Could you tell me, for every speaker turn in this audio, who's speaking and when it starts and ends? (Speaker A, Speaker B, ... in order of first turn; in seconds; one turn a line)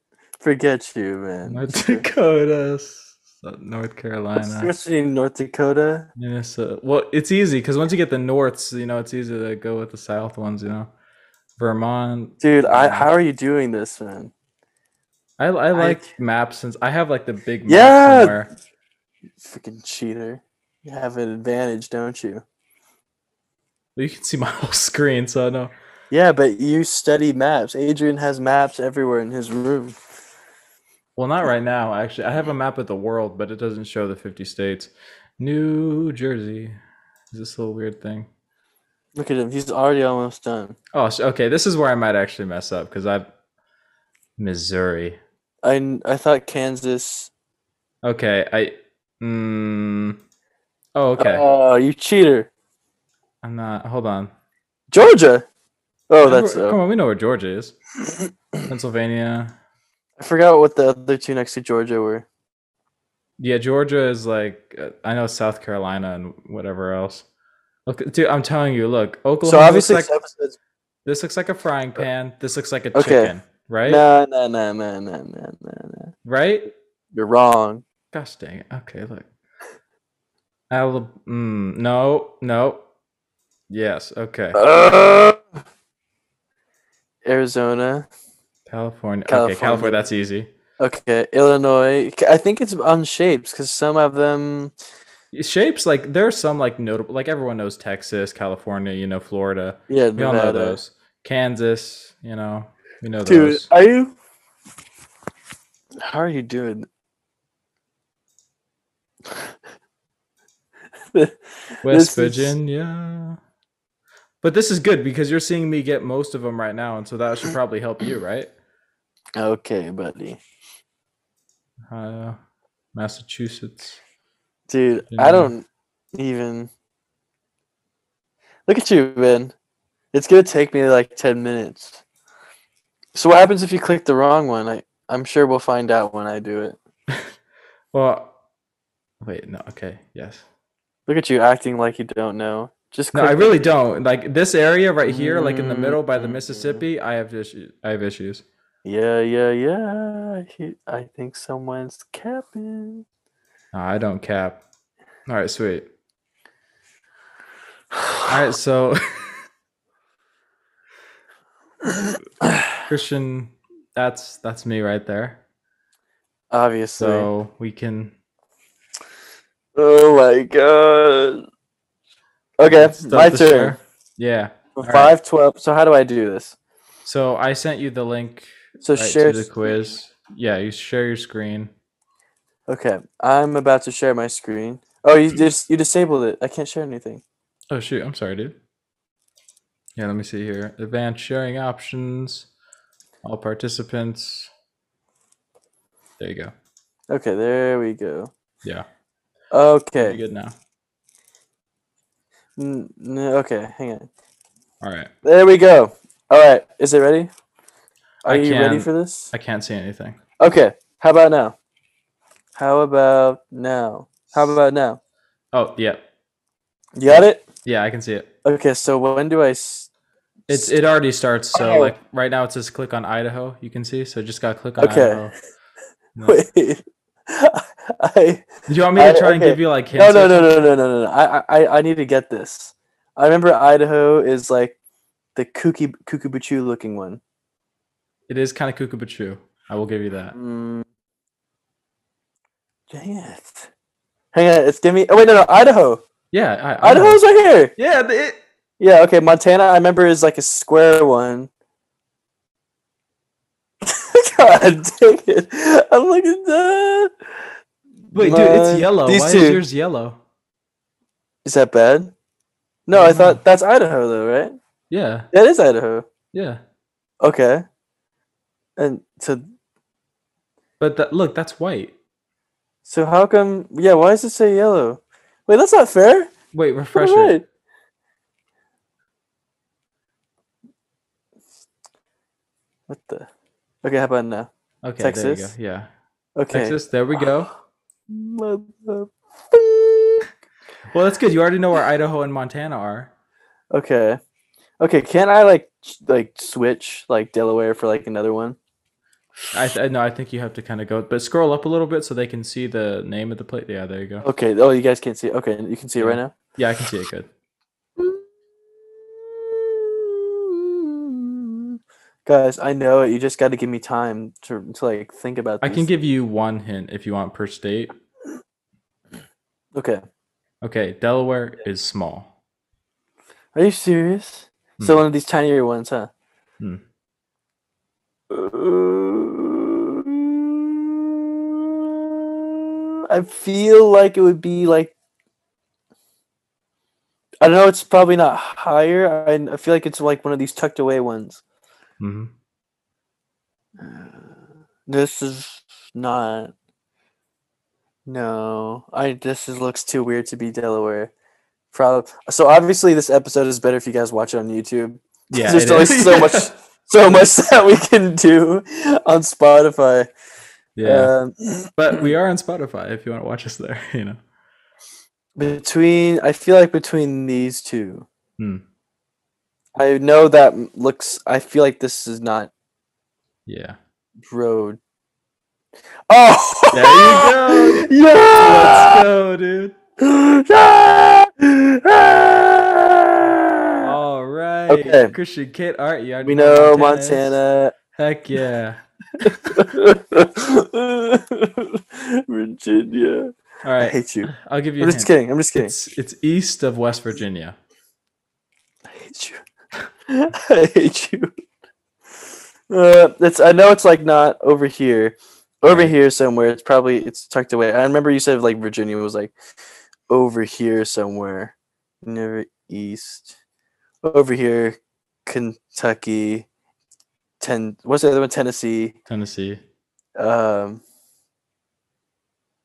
Speaker A: 0.4-2.1
Speaker B: 1.5-4.7
Speaker A: 4.4-6.1
Speaker B: 6.2-10.9
Speaker B: 11.6-13.1
Speaker A: 12.4-14.3
Speaker B: 15.4-18.5
Speaker A: 15.7-16.1
Speaker A: 17.7-18.4
Speaker A: 19.4-22.4
Speaker B: 24.0-25.7
Speaker A: 26.1-30.0
Speaker B: 31.2-36.8
Speaker B: 37.3-38.3
Speaker A: 39.2-40.8
Speaker B: 40.9-43.3
Speaker B: 44.4-45.2
Speaker A: 45.6-47.3
Speaker B: 48.0-50.2
Speaker B: 51.0-51.5
Speaker A: 51.2-52.5
Speaker B: 53.4-54.3
Speaker A: 54.9-55.5
Speaker A: 56.1-56.8
Speaker B: 56.2-57.8
Speaker B: 58.6-59.5
Speaker A: 60.2-62.3
Speaker B: 63.4-67.2
Speaker B: 67.9-70.1
Speaker A: 69.4-70.6
Speaker B: 71.0-74.0
Speaker A: 72.9-73.3
Speaker A: 73.9-76.1
Speaker B: 76.2-76.7
Speaker A: 77.1-77.8
Speaker B: 78.1-79.3
Speaker B: 80.7-82.8
Speaker B: 83.7-84.6
Speaker A: 84.5-85.4
Speaker A: 87.2-88.1
Speaker B: 88.7-90.5
Speaker A: 89.3-90.0
Speaker A: 90.8-94.7
Speaker B: 95.3-103.7
Speaker A: 99.9-100.8
Speaker A: 103.3-104.1
Speaker A: 106.0-106.9
Speaker A: 111.1-112.5
Speaker B: 111.8-113.4
Speaker B: 114.4-118.5
Speaker A: 119.4-120.4
Speaker B: 121.9-122.4
Speaker B: 123.0-124.0
Speaker A: 124.7-126.7
Speaker B: 125.1-125.5
Speaker A: 128.7-129.5
Speaker A: 130.1-132.0
Speaker A: 133.2-136.8
Speaker B: 137.9-138.3
Speaker B: 139.2-140.4
Speaker A: 141.1-143.6
Speaker B: 143.1-148.4
Speaker A: 145.1-146.8
Speaker A: 148.8-153.1
Speaker B: 153.7-154.6
Speaker B: 155.3-155.9
Speaker B: 158.3-159.4
Speaker B: 162.8-165.4
Speaker A: 166.5-167.3
Speaker B: 167.0-168.1
Speaker A: 169.8-171.4
Speaker A: 172.6-173.8
Speaker B: 172.7-175.1
Speaker A: 174.8-176.6
Speaker B: 177.1-181.7
Speaker A: 178.8-179.7
Speaker A: 182.7-187.2
Speaker B: 187.7-188.6
Speaker B: 190.0-192.5
Speaker B: 193.2-194.5
Speaker B: 196.2-196.5
Speaker A: 197.1-198.3
Speaker A: 199.5-200.2
Speaker B: 200.0-200.5
Speaker A: 202.6-204.1
Speaker B: 204.8-205.1
Speaker A: 205.2-207.3
Speaker A: 208.2-209.3
Speaker B: 208.2-210.2
Speaker A: 210.4-211.6
Speaker A: 212.6-215.0
Speaker B: 215.5-216.1
Speaker A: 217.0-217.4
Speaker B: 217.1-218.3
Speaker A: 218.4-219.9
Speaker B: 220.5-225.3
Speaker A: 221.5-221.9
Speaker A: 224.8-225.3
Speaker B: 226.2-226.4
Speaker A: 226.2-234.8
Speaker B: 228.7-230.6
Speaker A: 235.3-237.2
Speaker B: 238.3-240.3
Speaker A: 240.3-240.9
Speaker A: 242.9-243.7
Speaker A: 244.3-246.0
Speaker B: 246.3-247.2
Speaker A: 246.8-247.7
Speaker B: 247.8-248.4
Speaker A: 248.8-251.5
Speaker A: 253.8-257.1
Speaker B: 258.1-260.2
Speaker A: 258.1-259.6
Speaker A: 261.4-262.1
Speaker A: 262.9-264.6
Speaker B: 262.9-263.4
Speaker B: 264.9-265.3
Speaker A: 265.3-266.1
Speaker B: 266.3-266.6
Speaker A: 267.2-267.6
Speaker A: 268.8-269.5
Speaker B: 270.8-271.9
Speaker A: 272.9-276.3
Speaker B: 276.5-277.4
Speaker A: 276.9-277.4
Speaker A: 282.9-283.3
Speaker A: 283.8-285.5
Speaker B: 284.8-285.9
Speaker A: 286.4-286.8
Speaker B: 286.5-287.5
Speaker A: 288.1-290.3
Speaker B: 290.9-293.1
Speaker A: 293.7-294.2
Speaker A: 294.8-298.6
Speaker B: 299.5-304.3
Speaker A: 304.2-306.3
Speaker B: 306.0-307.3
Speaker A: 308.0-308.2
Speaker A: 309.0-315.9
Speaker B: 315.6-317.9
Speaker A: 319.8-320.0
Speaker B: 320.6-322.3
Speaker A: 323.6-326.1
Speaker A: 328.3-334.9
Speaker A: 337.4-341.4
Speaker B: 342.0-342.3
Speaker A: 343.8-344.4
Speaker A: 344.9-346.5
Speaker A: 348.1-351.1
Speaker A: 351.7-360.1
Speaker B: 355.3-356.5
Speaker B: 360.8-361.1
Speaker A: 360.8-362.1
Speaker B: 361.8-364.2
Speaker A: 365.4-368.1
Speaker A: 369.8-372.5
Speaker B: 373.5-373.8
Speaker A: 374.3-374.8
Speaker A: 376.1-379.1
Speaker B: 376.7-379.8
Speaker A: 380.0-383.9
Speaker B: 383.8-387.4
Speaker A: 384.7-385.1
Speaker A: 386.2-387.8
Speaker B: 387.9-389.6
Speaker A: 389.2-395.7
Speaker B: 393.6-397.6
Speaker A: 398.9-399.4
Speaker A: 400.1-401.3
Speaker A: 402.7-409.3
Speaker B: 405.6-405.9
Speaker A: 410.1-413.3
Speaker A: 414.0-416.5
Speaker A: 417.4-419.0
Speaker B: 419.1-419.6
Speaker A: 420.2-420.8